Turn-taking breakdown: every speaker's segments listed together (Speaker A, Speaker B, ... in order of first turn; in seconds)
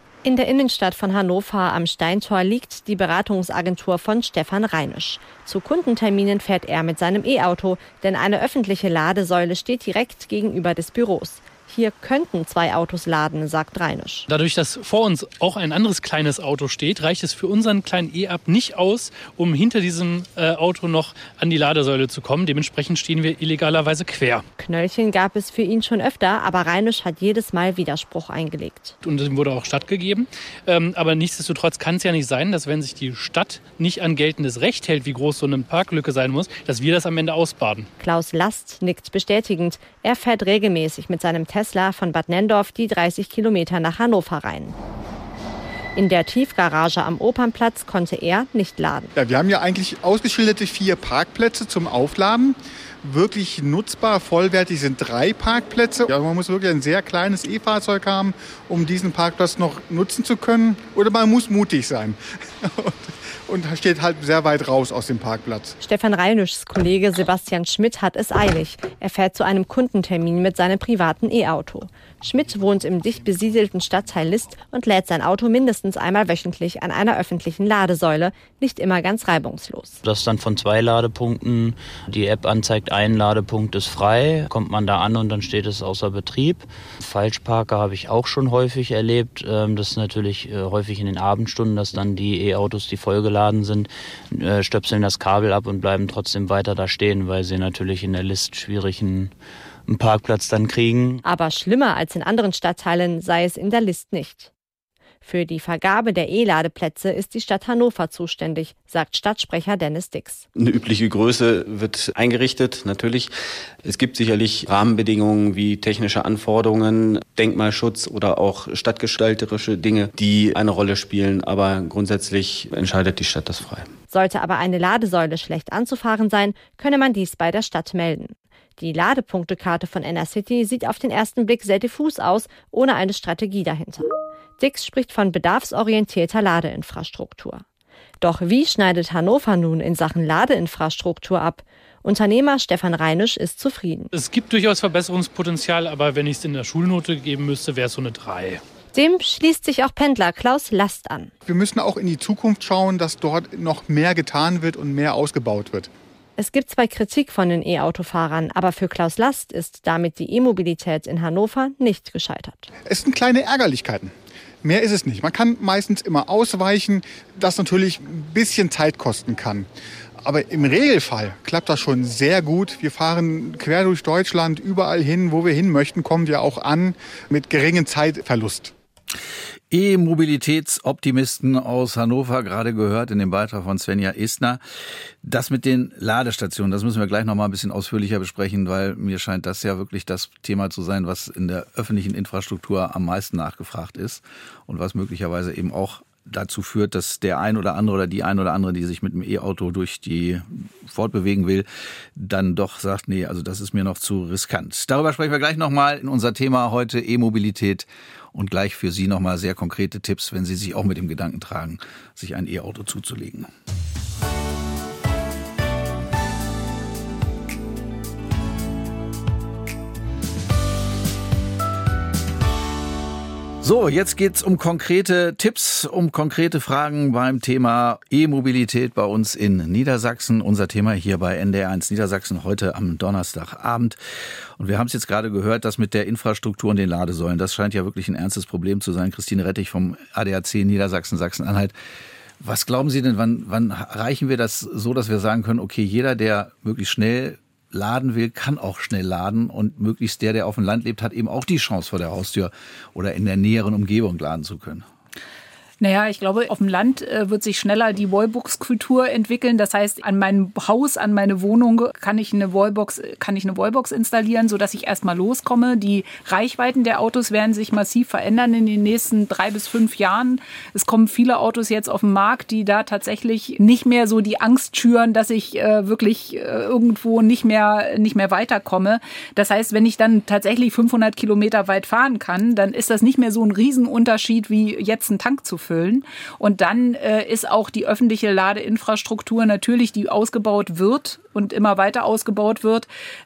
Speaker A: 0.2-14.2, 24.6-28.9, 38.0-44.8, 46.0-49.1, 65.8-80.0, 101.2-104.5, 105.2-110.5, 124.1-137.6, 138.2-144.1, 148.9-151.3, 156.4-162.7
Speaker B: 14.3-24.4, 29.0-37.9, 144.1-148.6
Speaker C: 49.1-65.8, 151.4-155.9, 162.8-169.7, 170.2-178.7
Speaker D: 80.0-99.3, 99.9-101.2
Speaker E: 110.5-113.3, 113.8-123.9
Speaker F: 179.7-184.6, 185.2-213.5, 223.6-234.0, 234.6-241.7, 242.4-254.8
Speaker G: 255.8-292.9